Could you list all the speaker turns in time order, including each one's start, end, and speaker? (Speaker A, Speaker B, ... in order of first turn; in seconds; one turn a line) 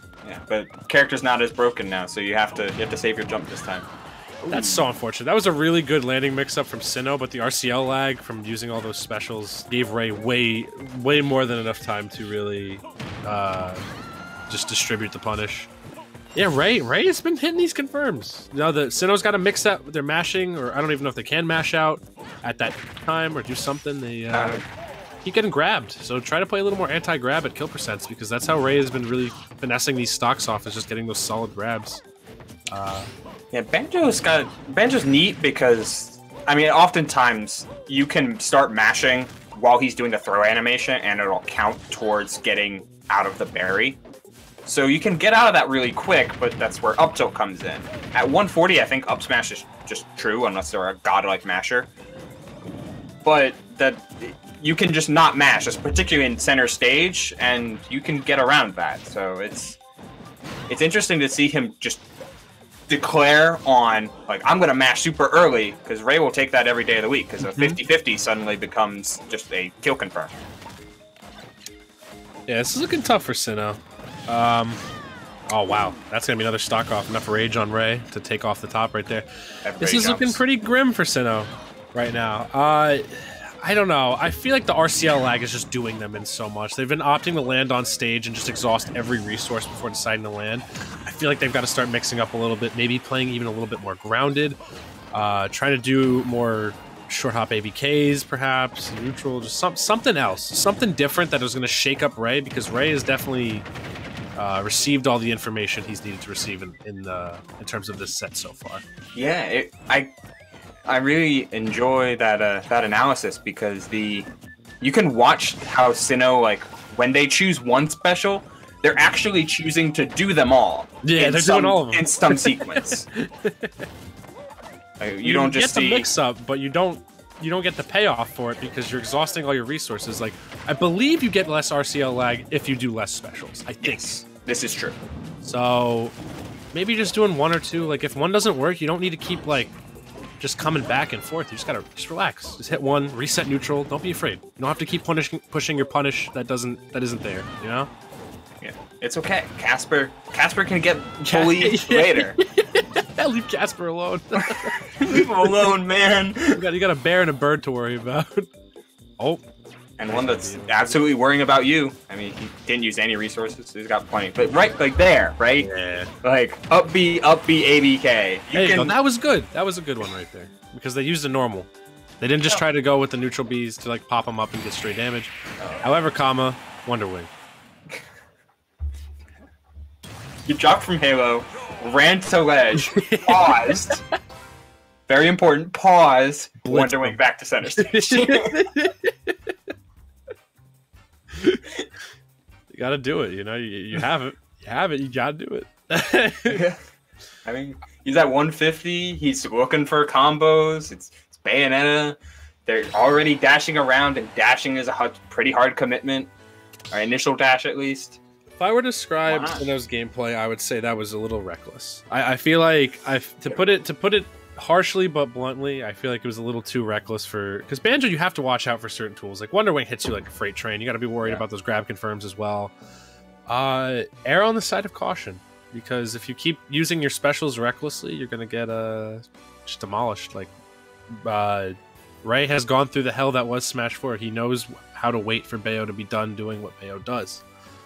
Speaker A: 0.2-3.9
Speaker B: 4.4-13.9
Speaker A: 4.5-4.9
Speaker B: 14.5-15.7
Speaker B: 16.4-24.6
Speaker A: 24.3-24.6
Speaker B: 25.2-32.0
Speaker B: 32.7-33.1
Speaker A: 33.5-44.0
Speaker A: 44.6-51.9
Speaker A: 53.2-59.8
Speaker A: 60.7-62.0
Speaker A: 62.9-70.3
Speaker B: 67.4-67.8
Speaker B: 72.5-74.8
Speaker B: 75.5-79.3
Speaker A: 79.6-80.4
Speaker B: 79.8-94.6
Speaker B: 95.1-103.7
Speaker B: 104.4-108.8
Speaker A: 109.2-110.1
Speaker A: 110.9-114.3
Speaker A: 114.8-123.0
Speaker B: 121.0-123.9
Speaker A: 125.0-126.1
Speaker B: 125.2-134.2
Speaker A: 133.8-135.0
Speaker B: 135.4-136.2
Speaker B: 136.7-139.8
Speaker B: 140.4-147.9
Speaker A: 148.6-152.4
Speaker B: 151.3-155.7
Speaker A: 154.4-156.6
Speaker B: 156.5-158.5
Speaker A: 160.0-165.7
Speaker B: 160.1-161.1
Speaker B: 165.6-166.1
Speaker A: 166.2-169.0
Speaker B: 168.5-171.7
Speaker B: 172.2-177.3
Speaker A: 175.6-175.9
Speaker A: 180.5-184.0
Speaker B: 182.8-184.0
Speaker A: 185.1-188.6
Speaker B: 186.6-187.2
Speaker B: 187.8-189.5
Speaker B: 191.3-191.6
Speaker B: 192.7-196.6
Speaker A: 196.5-196.8
Speaker A: 197.4-206.3
Speaker A: 206.9-208.2
Speaker B: 208.6-222.7
Speaker A: 209.2-209.7
Speaker B: 223.5-230.5
Speaker B: 231.1-237.4